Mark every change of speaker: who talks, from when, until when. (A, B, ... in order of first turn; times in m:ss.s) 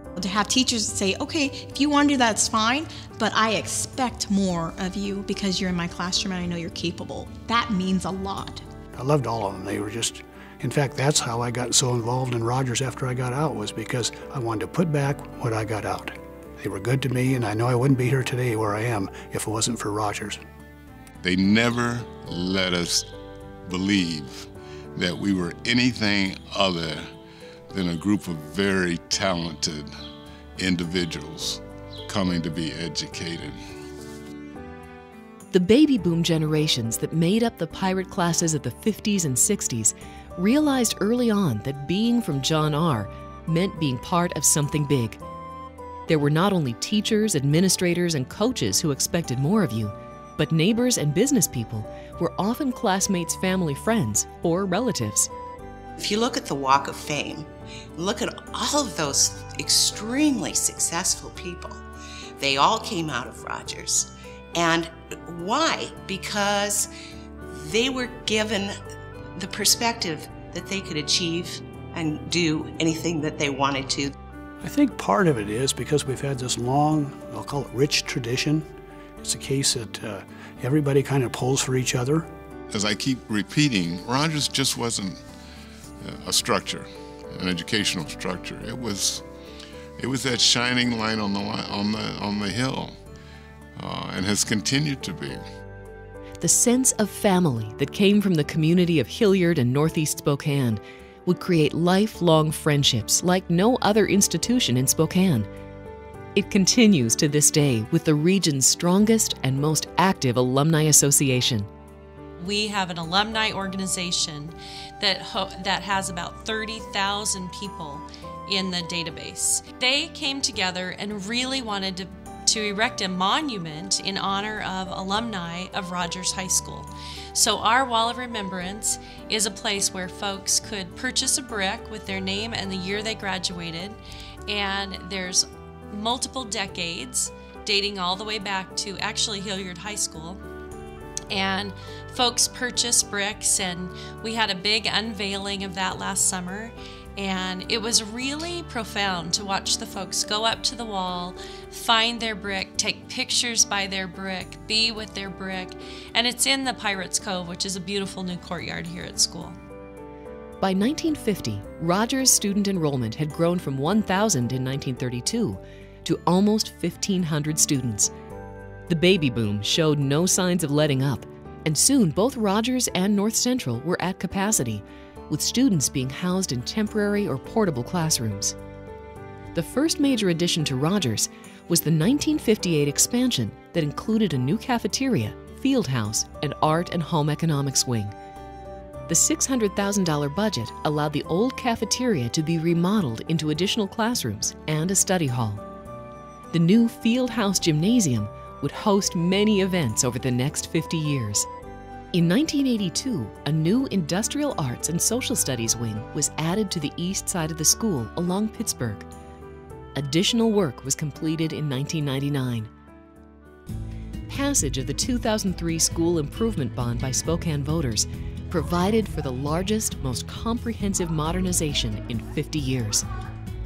0:00.2-0:08.6 A
0:08.9-0:20.4 B
0:21.2-0:23.1 C
0:23.6-0:27.1 C
0:27.7-0:29.9 C
0:30.6-0:33.6 C
0:35.5-0:45.2 D
0:46.1-0:55.3 D
0:56.0-1:01.8 E
1:02.4-1:06.9 E
1:07.5-1:08.7 E
1:09.4-1:14.1 E
1:14.6-1:18.6 B
1:19.2-1:22.3 B
1:22.7-1:25.2 C
1:26.0-1:29.2 C
1:30.0-1:33.0 C
1:33.8-1:35.4 C
1:36.4-1:45.5 D
1:46.3-1:51.7 D
1:52.4-2:20.4 F
2:21.3-2:39.6 F
2:40.6-2:48.1 D
2:48.9-2:58.6 D
2:59.5-3:08.1 D
3:09.1-3:15.6 D
3:16.5-3:21.5 D
3:22.1-3:29.1 D
3:30.0-3:32.7 D
3:34.3-3:43.1 D